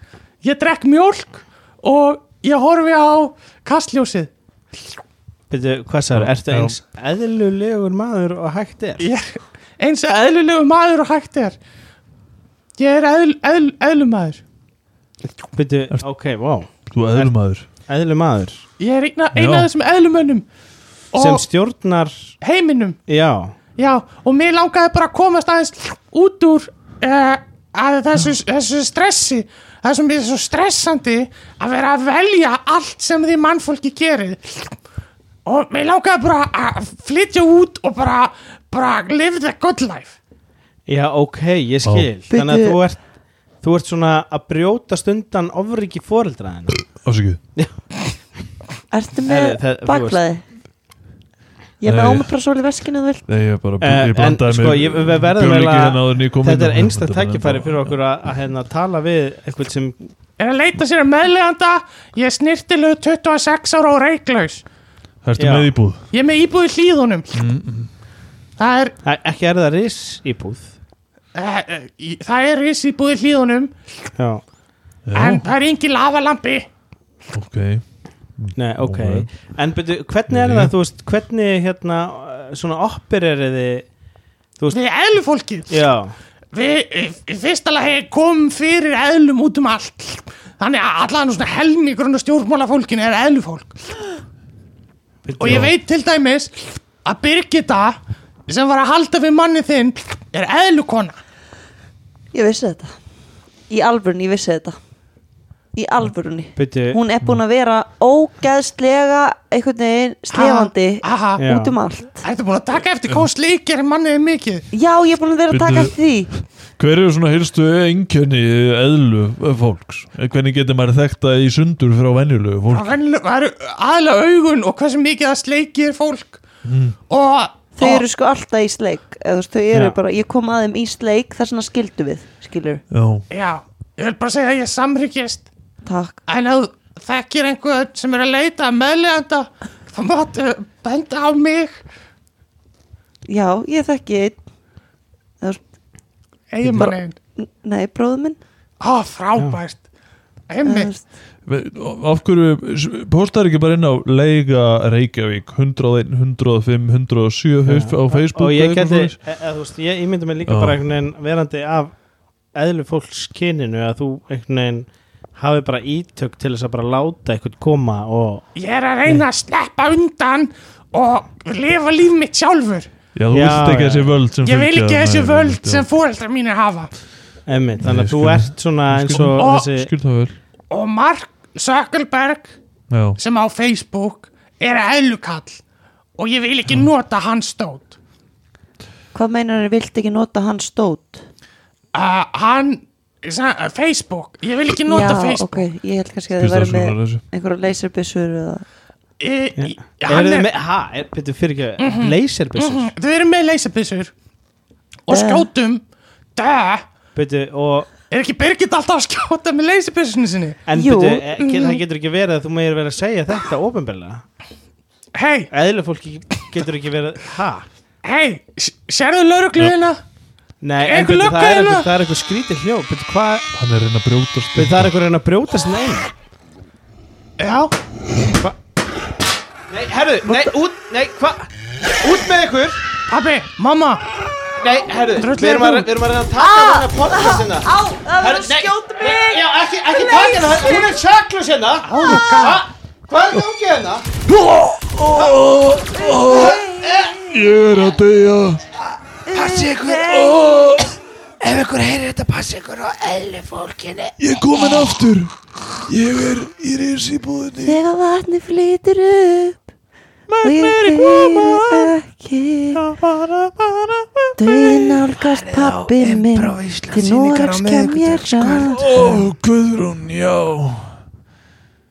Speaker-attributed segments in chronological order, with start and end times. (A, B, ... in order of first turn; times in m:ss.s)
0:00.4-0:04.3 A
0:05.5-0:09.1 B
0:06.1-0:06.8 C
0:09.0-0:11.6 A
0:12.8-0:14.4 A
0:15.5-0:17.3 B
0:16.9-0:17.7 C
0:17.8-0:18.6 B
0:18.8-0:20.5 A
0:19.3-0:19.7 C
0:21.1-0:21.4 A
0:21.2-0:22.4 B
0:22.4-0:23.0 A
0:23.1-0:23.6 B
0:23.8-0:34.8 A
0:35.4-0:40.2 A
0:40.9-0:43.0 B
0:41.8-0:42.1 C
0:42.3-0:42.8 D
0:43.6-0:46.9 B
0:47.0-0:47.4 C
0:48.9-0:50.4 D
0:49.3-0:50.2 B
0:51.8-0:53.3 D
0:51.8-0:52.3 C
0:53.3-0:58.0 C
0:53.8-1:00.0 B
1:00.4-1:04.6 A
1:05.2-1:06.0 C
1:05.4-1:05.7 B
1:06.1-1:07.4 A
1:07.3-1:07.9 C
1:08.6-1:08.9 A
1:09.0-1:10.7 B
1:11.4-1:13.7 A
1:14.2-1:14.4 B
1:15.1-1:15.5 C
1:15.2-1:16.7 A
1:17.3-1:17.8 C
1:18.4-1:19.3 C
1:18.6-1:23.9 B
1:20.3-1:20.7 C
1:24.7-1:25.8 A
1:25.7-1:26.1 B
1:26.5-1:33.8 A
1:35.2-1:35.7 B
1:35.4-1:41.2 A
1:42.3-1:42.9 D
1:43.7-1:44.8 D
1:45.8-1:52.2 D
1:46.6-1:47.0 B
1:50.3-1:51.4 A
1:51.4-1:51.8 B
1:52.2-1:54.7 A
1:54.7-1:56.3 D
1:55.5-2:03.0 C
2:02.7-2:06.4 A
2:06.6-2:07.0 C
2:07.1-2:08.0 A
2:07.8-2:12.8 D
2:12.9-2:13.3 C
2:13.3-2:15.5 A
2:15.8-2:16.2 D
2:16.3-2:21.8 A
2:23.3-2:24.4 D
2:26.5-2:27.2 A
2:26.8-2:28.4 D
2:28.8-2:29.8 A
2:30.5-2:30.9 A
2:30.6-2:31.1 D
2:31.5-2:39.2 C
2:37.7-2:41.9 B
2:40.5-2:40.8 C
2:42.5-2:48.5 B
2:48.6-2:52.9 A
2:53.2-2:55.9 C
2:53.3-2:54.2 B
2:54.4-2:56.9 A
2:57.5-2:59.9 B
2:57.8-3:00.4 C
2:59.4-2:59.7 A
3:00.7-3:02.6 A
3:02.9-3:03.2 C
3:03.2-3:05.6 A
3:06.2-3:08.0 A
3:09.1-3:11.2 D
3:11.9-3:15.7 A
3:14.9-3:18.6 D
3:16.4-3:17.2 C
3:19.2-3:20.5 A
3:19.6-3:22.9 B
3:21.8-3:24.1 A
3:25.1-3:25.8 A
3:25.1-3:25.5 D
3:26.4-3:26.8 A
3:27.2-3:27.9 B
3:28.1-3:30.6 A
3:30.7-3:34.2 B
3:30.7-3:31.3 D
3:31.4-3:31.8 A
3:35.2-3:35.5 A
3:35.5-3:37.7 B
3:38.0-3:40.0 A
3:40.6-3:43.5 B
3:40.8-3:41.9 A
3:43.5-3:45.0 C
3:44.6-3:46.1 B
3:47.4-3:47.8 A
3:49.7-3:52.8 B
3:53.1-3:54.0 A
3:54.6-3:57.7 B
3:55.2-3:55.9 A
3:56.4-4:00.9 D
3:58.2-4:04.1 B
4:01.9-4:02.6 A
4:04.3-4:08.6 C
4:05.1-4:05.4 B
4:05.9-4:07.4 D
4:06.3-4:07.1 B
4:09.3-4:10.4 D
4:09.3-4:11.0 C
4:11.4-4:14.1 B
4:14.2-4:17.8 C
4:17.6-4:19.6 D
4:20.3-4:21.3 A
4:20.4-4:22.8 D
4:21.0-4:21.6 C
4:23.0-4:23.7 C
4:24.4-4:29.1 D
4:25.6-4:28.8 B
4:28.5-4:31.0 C